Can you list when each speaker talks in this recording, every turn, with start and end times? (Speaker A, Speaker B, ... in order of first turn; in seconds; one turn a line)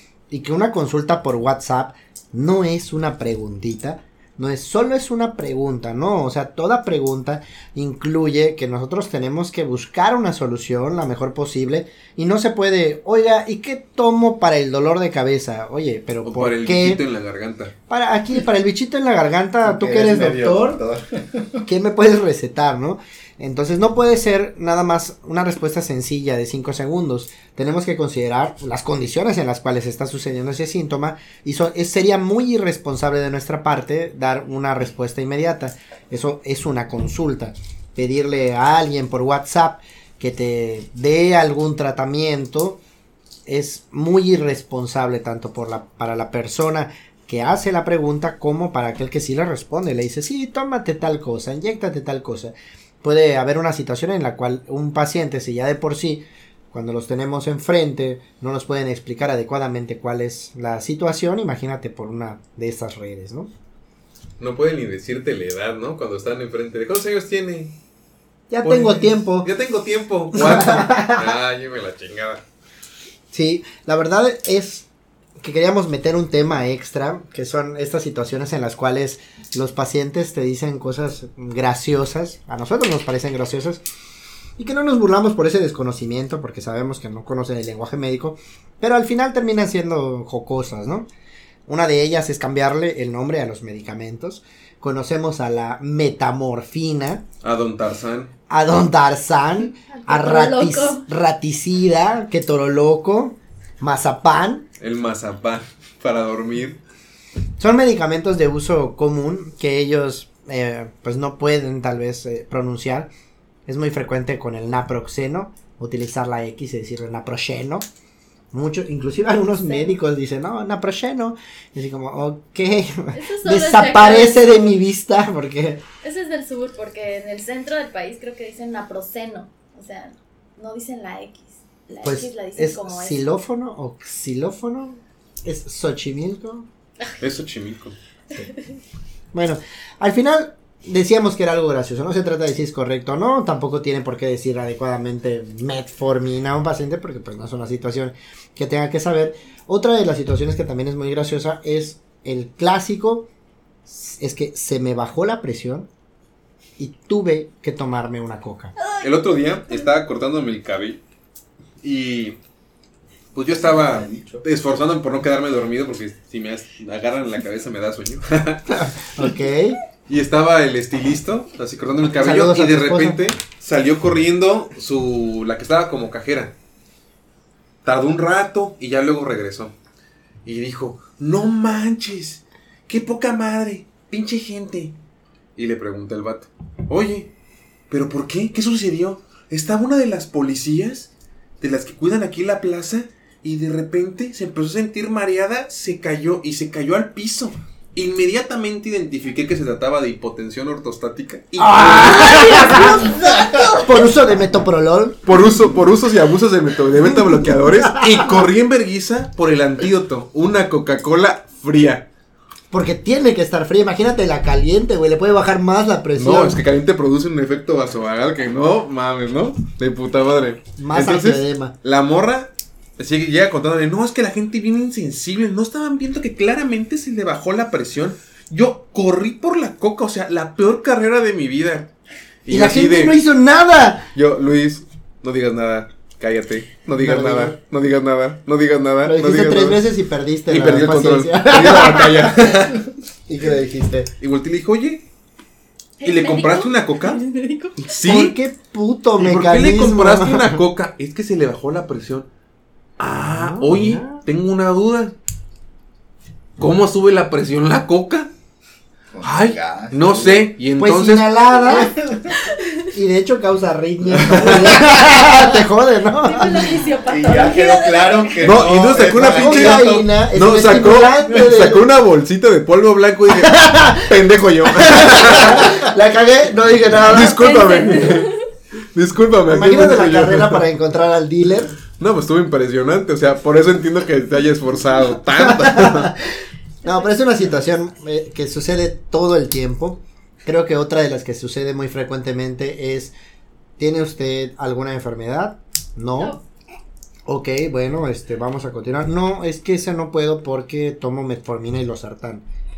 Speaker A: 0.3-17.0
Speaker B: 16.2-17.7
Speaker A: 17.9-20.8
Speaker C: 19.6-21.6
Speaker A: 21.6-42.8
Speaker A: 43.5-63.5
Speaker B: 64.4-67.7
Speaker A: 68.5-69.5
Speaker B: 68.6-72.4
Speaker A: 70.3-71.4
Speaker A: 73.3-74.9
Speaker A: 75.4-83.8
Speaker A: 84.6-91.1
Speaker A: 91.7-97.2
Speaker B: 97.4-98.3
Speaker A: 98.5-104.7
Speaker D: 99.9-101.1
Speaker B: 104.8-106.8
Speaker A: 107.6-113.1
Speaker A: 113.7-117.8
Speaker A: 118.5-125.8
Speaker D: 119.5-119.9
Speaker D: 123.1-124.8
Speaker D: 126.0-133.2
Speaker A: 132.0-136.7
Speaker B: 137.2-137.9
Speaker A: 139.3-153.3
Speaker A: 153.8-155.9
Speaker A: 156.8-158.7
Speaker B: 159.0-161.0
Speaker B: 161.8-162.3
Speaker B: 163.3-168.9
Speaker C: 163.6-164.4
Speaker A: 168.7-169.8
Speaker B: 170.1-176.5
Speaker A: 172.2-173.2
Speaker B: 177.8-179.7
Speaker B: 180.4-184.9
Speaker B: 185.6-187.3
Speaker B: 187.9-191.1
Speaker B: 191.6-203.4
Speaker A: 201.6-205.2
Speaker D: 202.1-203.7
Speaker B: 205.2-212.1
Speaker A: 207.1-208.3
Speaker A: 212.7-216.6
Speaker B: 216.2-231.9
Speaker A: 220.8-221.7
Speaker B: 232.4-233.2
Speaker A: 232.5-234.1
Speaker B: 234.1-239.8
Speaker A: 237.0-237.6
Speaker A: 239.0-242.5
Speaker B: 240.5-242.9
Speaker A: 243.3-244.1
Speaker B: 244.2-245.0
Speaker D: 246.0-247.8
Speaker B: 246.0-247.2
Speaker B: 247.8-248.4
Speaker A: 248.0-250.6
Speaker B: 249.2-252.3
Speaker B: 253.0-255.1
Speaker A: 253.3-254.2
Speaker B: 256.6-258.3
Speaker C: 259.1-260.5
Speaker B: 259.2-261.3
Speaker A: 260.8-261.9
Speaker C: 261.6-262.3
Speaker D: 262.3-262.9
Speaker A: 262.9-266.8
Speaker B: 264.2-264.8
Speaker C: 264.3-265.4
Speaker D: 266.1-268.4
Speaker C: 267.0-270.0
Speaker B: 268.4-275.9
Speaker A: 269.0-271.9
Speaker A: 273.3-277.4
Speaker B: 277.0-278.3
Speaker D: 277.2-278.4
Speaker B: 278.9-280.6
Speaker A: 279.5-281.7
Speaker B: 281.9-286.1
Speaker A: 285.4-286.2
Speaker D: 286.8-287.1
Speaker A: 286.8-293.1
Speaker A: 293.8-296.4
Speaker A: 297.3-302.4